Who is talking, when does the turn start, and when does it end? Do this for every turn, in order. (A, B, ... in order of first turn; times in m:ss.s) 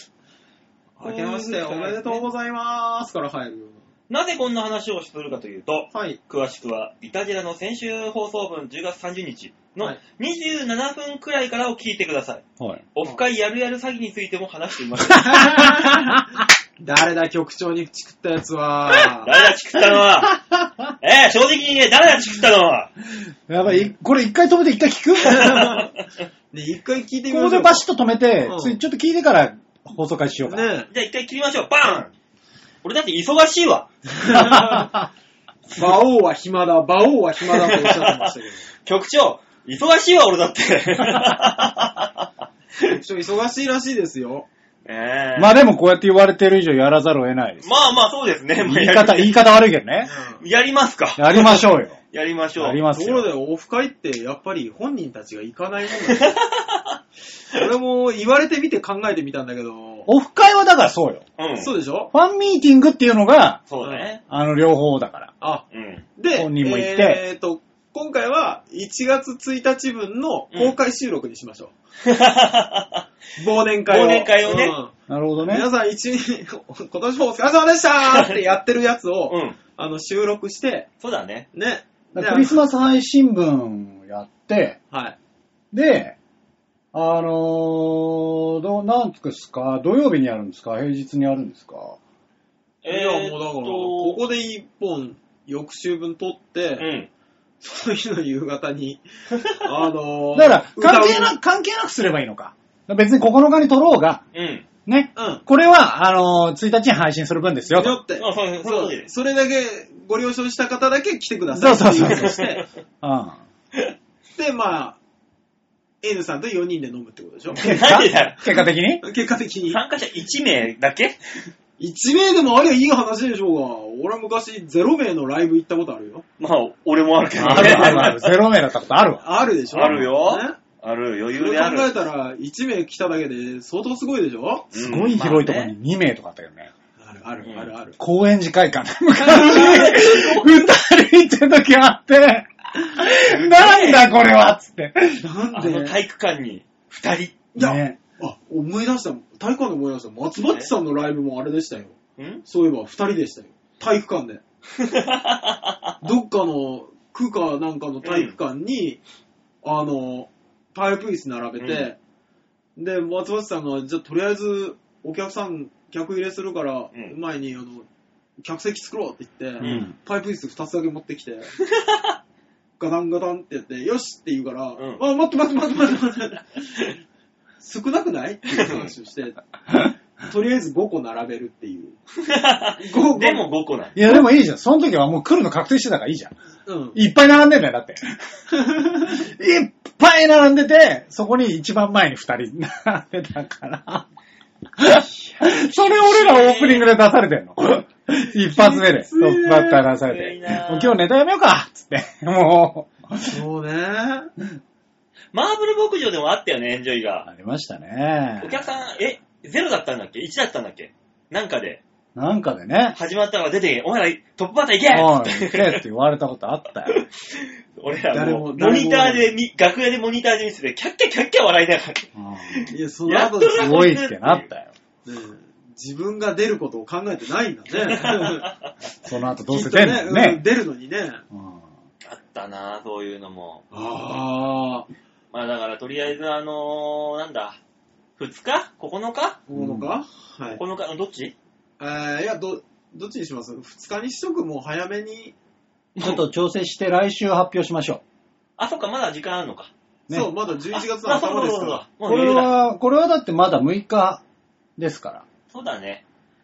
0:01.0-0:03.8 A
0:01.0-0:02.3 B
0:04.1-0:12.4 B
0:05.9-0:06.2 A
0:12.9-0:15.7 B
0:15.1-0:16.3 A
0:15.3-0:16.2 C
0:16.8-0:19.3 A
0:19.2-0:20.4 B
0:20.0-0:20.9 C
0:21.0-0:22.9 B
0:23.5-0:25.8 C
0:25.3-0:25.9 A
0:25.3-0:25.9 B
0:26.5-0:27.8 A
0:27.3-0:30.7 C
0:28.4-0:28.8 A
0:30.4-0:30.9 A
0:30.9-0:32.1 B
0:32.8-0:33.9 B
0:34.1-0:34.9 A
0:34.3-0:35.0 C
0:35.7-0:38.7 A
0:37.5-0:38.3 B
0:38.8-0:43.0 B
0:42.8-0:44.5 A
0:44.8-0:45.6 B
0:45.4-0:47.7 C
0:47.6-0:49.4 B
0:48.6-0:50.1 C
0:50.0-0:50.4 A
0:50.4-0:52.8 B
0:51.2-0:52.0 C
0:52.6-0:53.3 C
0:52.9-0:56.3 A
0:56.1-0:57.0 B
0:57.5-1:00.1 A
1:00.1-1:01.2 C
1:01.4-1:01.8 B
1:01.6-1:02.1 A
1:02.1-1:03.7 C
1:03.7-1:04.2 B
1:03.8-1:04.1 A
1:04.2-1:05.3 C
1:05.4-1:11.7 A
1:05.7-1:06.1 B
1:06.4-1:07.2 C
1:12.0-1:13.0 B
1:13.4-1:20.9 A
1:13.9-1:14.8 B
1:15.1-1:15.7 C
1:18.1-1:18.4 B
1:19.3-1:19.6 B
1:21.0-1:21.5 B
1:21.5-1:22.6 A
1:22.2-1:24.8 C
1:24.9-1:25.2 A
1:25.7-1:26.2 C
1:26.9-1:32.0 C
1:32.8-1:34.3 B
1:32.8-1:36.9 A
1:36.8-1:37.1 B
1:37.6-1:39.0 A
1:39.3-1:39.7 B
1:39.6-1:41.4 A
1:40.3-1:44.2 C
1:44.3-1:44.6 B
1:44.9-1:48.0 C
1:45.2-1:45.4 A
1:47.7-1:52.7 A
1:48.2-1:49.1 B
1:51.5-1:52.4 C
1:52.1-1:52.6 B
1:53.0-1:53.4 C
1:54.4-1:55.0 A
1:56.0-1:57.7 A
1:57.5-1:58.7 B
1:57.6-1:59.0 C
1:59.0-1:59.8 A
1:59.7-2:01.2 B
2:01.8-2:06.2 A
2:06.4-2:08.3 B
2:07.4-2:10.1 C
2:07.5-2:08.1 A
2:09.2-2:10.6 A
2:09.7-2:11.9 B
2:11.4-2:14.7 A
2:14.7-2:15.7 B
2:14.7-2:16.7 C
2:17.0-2:18.0 A
2:17.4-2:17.7 B
2:18.0-2:25.2 C
2:19.2-2:20.7 B
2:23.2-2:24.1 B
2:25.2-2:26.0 A
2:25.5-2:27.4 B
2:27.5-2:34.4 A
2:27.6-2:28.0 C
2:30.4-2:30.7 B
2:32.2-2:32.4 B
2:34.8-2:35.9 B
2:36.0-2:39.0 A
2:38.0-2:38.3 B
2:39.6-2:42.0 A
2:41.6-2:41.9 B
2:42.8-2:47.9 A
2:48.4-2:51.6 A
2:49.6-2:49.8 B
2:49.6-2:50.0 C
2:51.6-2:52.2 B
2:52.8-2:56.9 A
2:54.8-2:55.0 B
2:57.6-2:59.4 A
2:58.6-2:58.9 B
3:00.2-3:02.0 A
3:02.2-3:04.0 B
3:02.8-3:03.5 A
3:04.0-3:06.3 C
3:06.7-3:07.0 A
3:06.9-3:08.3 C
3:08.5-3:09.1 A
3:09.0-3:14.1 C
3:14.8-3:23.4 C
3:15.4-3:16.9 B
3:18.4-3:19.9 A
3:20.0-3:21.0 B
3:23.3-3:24.3 A
3:25.3-3:27.3 B
3:27.3-3:28.6 C
3:28.4-3:31.8 B
3:32.2-3:33.0 C
3:32.9-3:35.8 B
3:34.9-3:37.0 C
3:36.9-3:44.5 B
3:38.1-3:39.4 A
3:42.2-3:42.7 C
3:42.7-3:43.8 A
3:43.6-3:44.7 C
3:45.0-3:48.5 A
3:47.7-3:48.7 B
3:49.0-3:50.4 C
3:49.5-3:51.2 A
3:51.3-3:51.7 C
3:52.0-3:53.6 B
3:53.7-3:54.9 A
3:55.3-3:57.6 B
3:58.2-3:59.4 B
3:59.5-4:00.6 A
3:59.6-3:59.9 C
4:00.6-4:01.3 B
4:01.8-4:05.4 A
4:06.0-4:06.2 B
4:06.0-4:08.0 C
4:08.6-4:09.7 B
4:10.1-4:11.8 A
4:10.7-4:12.5 B
4:12.0-4:14.2 C
4:14.8-4:15.3 C
4:15.5-4:16.0 B